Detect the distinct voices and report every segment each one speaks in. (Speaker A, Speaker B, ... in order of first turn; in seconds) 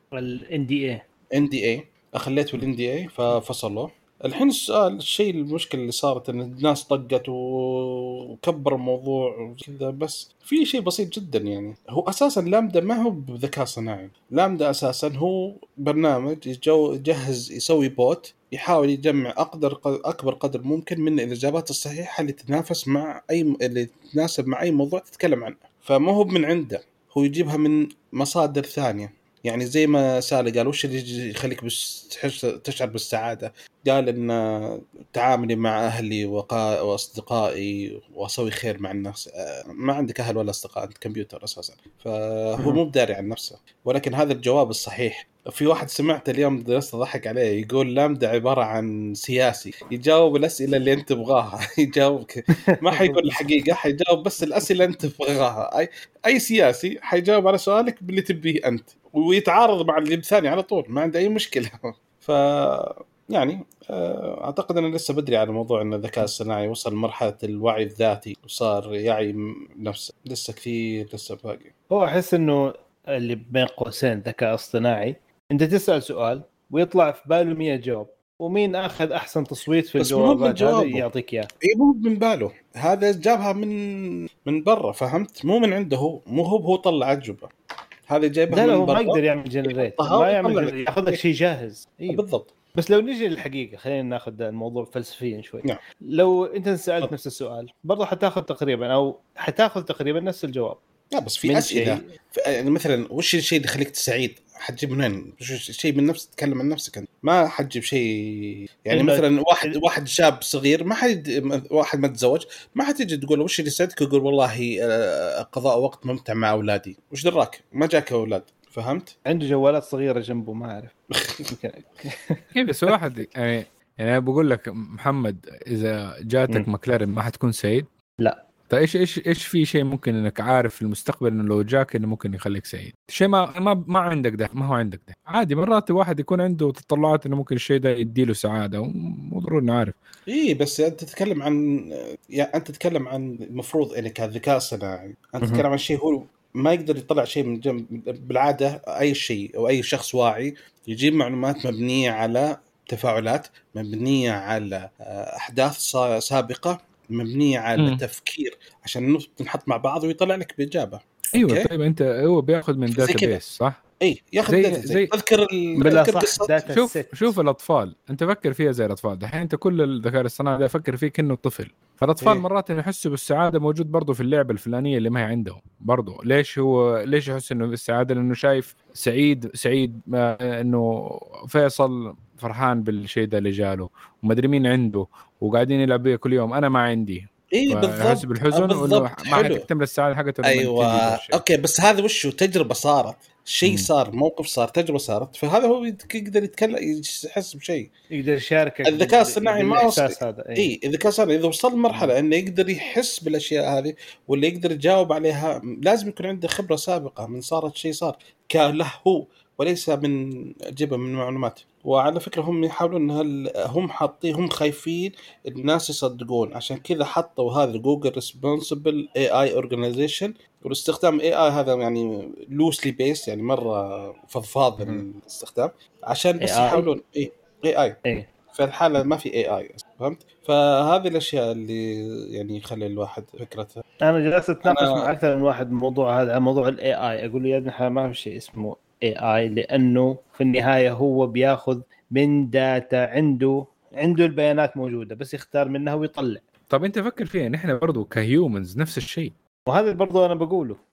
Speaker A: 0.1-1.0, 52.7-53.5, 71.9-81.5, 88.5-92.2, 92.8-100.8, 101.5-102.0, 108.9-109.8, 119.3-120.9, 121.5-122.4, 165.8-167.3, 198.1-200.7, 224.8-225.0, 226.4-226.9, 234.0-246.4, 249.7-250.8
Speaker B: 1.3-71.7, 80.0-81.0, 81.6-87.5, 88.1-91.2, 92.1-92.5, 101.1-119.1, 121.1-121.5, 140.3-161.7, 162.9-163.4, 164.0-166.5, 187.5-189.7, 190.4-197.9, 198.8-233.8, 234.6-235.1
Speaker C: 122.5-127.9, 128.7-140.0, 161.3-163.8, 164.5-165.1, 166.7-191.4, 193.6-193.9, 246.7-249.3